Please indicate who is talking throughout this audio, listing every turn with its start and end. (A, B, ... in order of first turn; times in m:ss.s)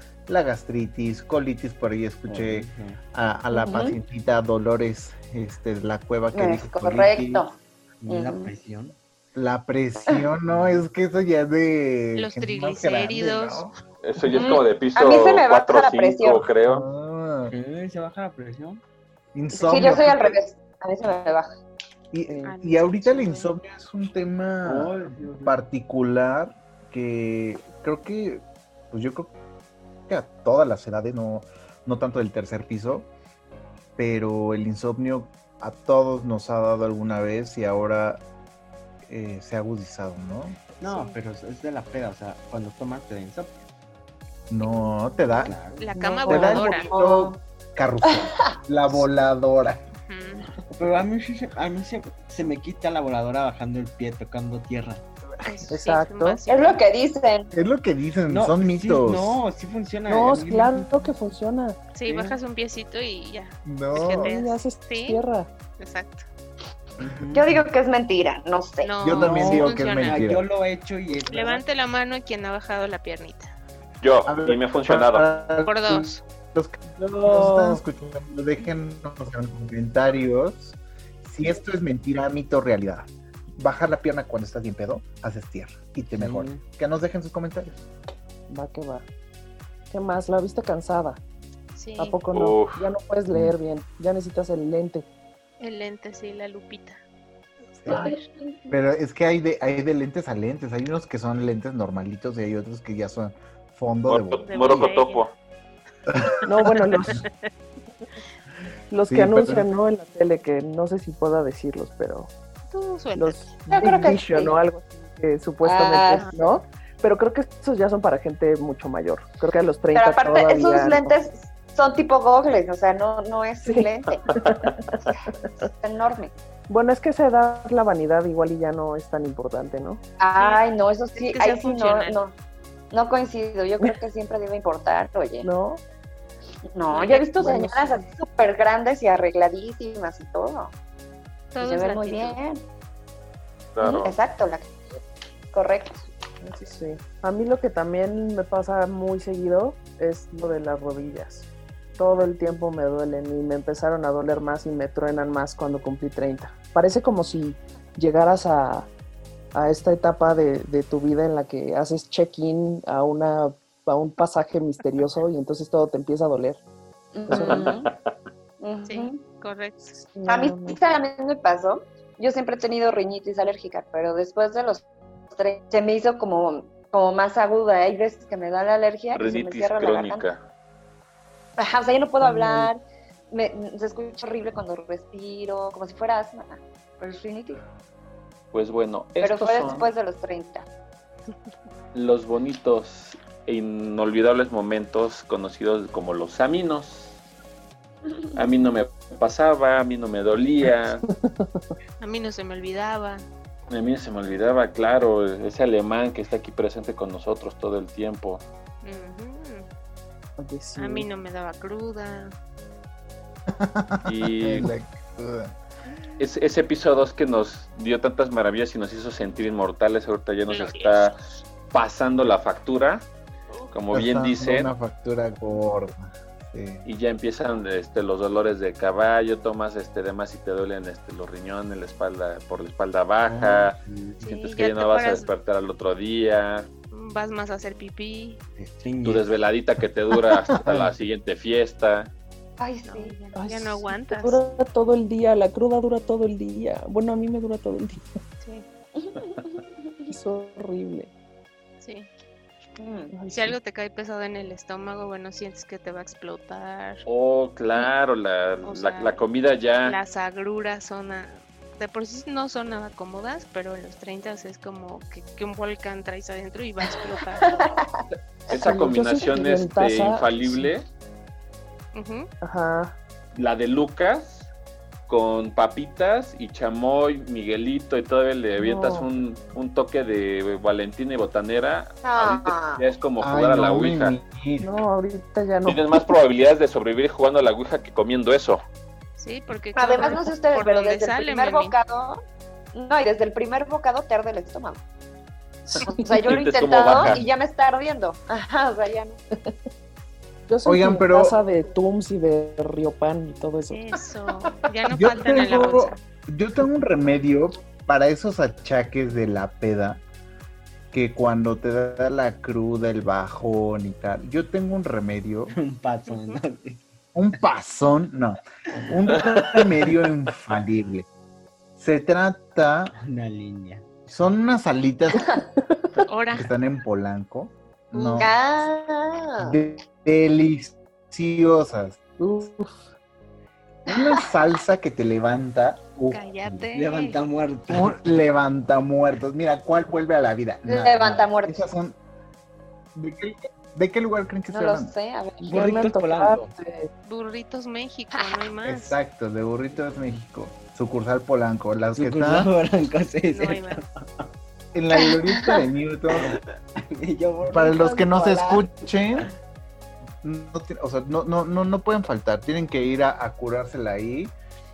0:00.3-0:07.5 A
0:02.3-0:03.0 B
0:03.5-0:04.0 C
0:06.3-0:07.6 C
0:08.0-0:09.0 B
0:08.1-0:08.5 C
0:09.4-0:13.7 A
0:10.5-0:10.8 B
0:12.2-0:13.7 D
0:14.0-0:16.9 E
0:14.3-0:16.5 C
0:16.7-0:17.5 A
0:17.5-0:18.8 B
0:19.4-0:20.4 A
0:19.5-0:21.5 C
0:22.1-0:29.3 A
0:22.4-0:23.5 D
0:24.6-0:25.6 B
0:30.1-0:33.1 A
0:34.0-0:38.2 A
0:39.1-0:40.7 A
0:40.8-0:43.6 B
0:40.8-0:41.2 D
0:44.5-0:45.5 A
0:45.3-0:46.9 D
0:45.4-0:45.9 B
0:45.9-0:46.6 F
0:46.3-0:47.4 C
0:46.3-0:49.8 A
0:48.1-0:48.5 C
0:50.0-0:50.5 D
0:50.8-0:55.0 B
0:55.4-0:56.8 D
0:55.7-0:56.4 F
0:56.5-0:57.5 C
0:57.5-0:59.4 A
0:58.3-1:01.1 B
1:00.1-1:01.8 F
1:01.9-1:05.2 D
1:02.1-1:02.4 B
1:03.6-1:04.3 A
1:04.1-1:05.5 F
1:05.8-1:06.2 D
1:07.0-1:07.6 B
1:07.3-1:09.1 C
1:08.8-1:10.2 D
1:09.0-1:10.4 A
1:09.1-1:11.6 B
1:11.3-1:13.5 D
1:14.0-1:15.3 E
1:14.3-1:27.8 A
1:15.6-1:16.2 D
1:17.3-1:17.7 B
1:26.1-1:26.6 B
1:28.5-1:29.0 F
1:29.9-1:31.2 F
1:31.8-1:32.2 D
1:32.0-1:35.1 F
1:32.3-1:32.8 E
1:35.6-1:37.0 D
1:37.8-1:38.1 A
1:37.9-1:38.2 C
1:38.7-1:44.9 A
1:44.1-1:45.3 E
1:44.5-1:45.2 D
1:46.1-1:46.4 A
1:46.4-1:47.2 F
1:48.9-1:52.3 F
1:49.0-1:49.7 A
1:52.7-1:53.6 D
1:53.2-2:01.2 F
1:53.7-1:54.5 C
1:55.6-1:56.3 C
1:59.9-2:04.3 C
2:03.6-2:05.1 F
2:05.6-2:06.3 C
2:06.7-2:10.0 F
2:10.2-2:12.3 C
2:10.4-2:10.6 D
2:11.2-2:12.2 D
2:12.9-2:15.5 C
2:15.4-2:15.8 F
2:16.7-2:20.7 C
2:16.9-2:17.6 D
2:17.1-2:18.0 F
2:21.5-2:22.4 D
2:21.6-2:22.6 C
2:23.8-2:24.2 E
2:23.8-2:24.7 C
2:25.5-2:26.0 C
2:26.4-2:31.5 F
2:32.0-2:38.9 F
2:39.6-2:46.6 F
2:47.2-2:47.9 C
2:47.3-2:47.7 F
2:47.4-2:48.1 E
2:48.6-2:49.2 C
2:48.9-2:49.9 D
2:50.0-2:50.8 F
2:50.3-3:00.3 C
2:59.1-3:00.5 E
3:01.6-3:02.8 C
3:02.2-3:02.7 F
3:03.3-3:07.6 C
3:08.5-3:09.9 E
3:09.2-3:10.7 C
3:11.9-3:17.2 E
3:18.4-3:21.0 E
3:21.1-3:21.6 F
3:22.0-3:23.3 D
3:23.7-3:28.4 E
3:28.8-3:29.7 D
3:30.4-3:31.1 F
3:30.8-3:32.3 D
3:33.5-3:35.6 A
3:34.0-3:34.7 E
3:36.2-3:41.2 E
3:40.5-3:41.2 D
3:41.7-3:43.1 E
3:43.7-3:44.7 E
3:43.9-3:46.8 A
3:46.8-3:53.8 E
3:53.3-3:54.3 B
3:54.2-3:55.3 D
3:54.4-3:56.7 E
3:56.9-3:58.4 D
3:58.6-3:59.3 B
3:59.0-4:02.1 E
4:02.6-4:03.2 C
4:02.8-4:04.4 D
4:03.4-4:08.1 F
4:09.0-4:10.1 C
4:10.1-4:11.1 F
4:11.8-4:12.1 D
4:12.8-4:13.1 C
4:13.1-4:13.6 F
4:13.3-4:17.0 D
4:17.1-4:20.0 E
4:18.6-4:19.2 D
4:19.8-4:27.6 D
4:27.3-4:28.0 C
4:28.5-4:30.9 E
4:28.5-4:30.7 F
4:31.9-4:32.3 D
4:32.4-4:33.0 F
4:33.3-4:34.5 E
4:35.1-4:44.2 E
4:38.6-4:39.1 F
4:42.0-4:42.8 C
4:43.2-4:44.7 A
4:44.6-4:46.1 F
4:45.7-4:48.6 E
4:49.2-4:51.8 D
4:49.8-4:52.2 C
4:52.7-4:54.8 C
4:55.7-4:56.1 F
4:55.9-4:59.2 C
4:56.2-4:57.2 E
4:57.0-4:57.2 A
5:00.5-5:03.9 F
5:00.6-5:01.4 A
5:03.7-5:06.0 D
5:04.9-5:10.0 A
5:10.9-5:15.6 A
5:15.5-5:16.8 B
5:16.1-5:16.4 D
5:17.2-5:21.1 A
5:21.8-5:23.0 A
5:23.0-5:23.9 B
5:24.1-5:25.3 A
5:26.1-5:26.5 D
5:26.3-5:28.7 A
5:27.9-5:28.3 D
5:28.2-5:29.6 C
5:29.4-5:32.0 A
5:32.2-5:32.8 F
5:33.9-5:36.3 A
5:36.1-5:37.2 D
5:36.7-5:38.0 B
5:37.7-5:42.0 A
5:40.7-5:41.6 C
5:43.0-5:44.9 A
5:44.5-5:45.5 C
5:45.4-5:46.9 F
5:45.5-5:46.5 B
5:47.1-5:49.0 D
5:48.6-5:52.5 A
5:52.0-5:54.0 B
5:53.3-5:53.8 D
5:54.7-5:56.4 A
5:55.3-5:55.6 C
5:56.2-5:58.7 B
5:57.5-5:59.3 A
6:00.2-6:04.4 A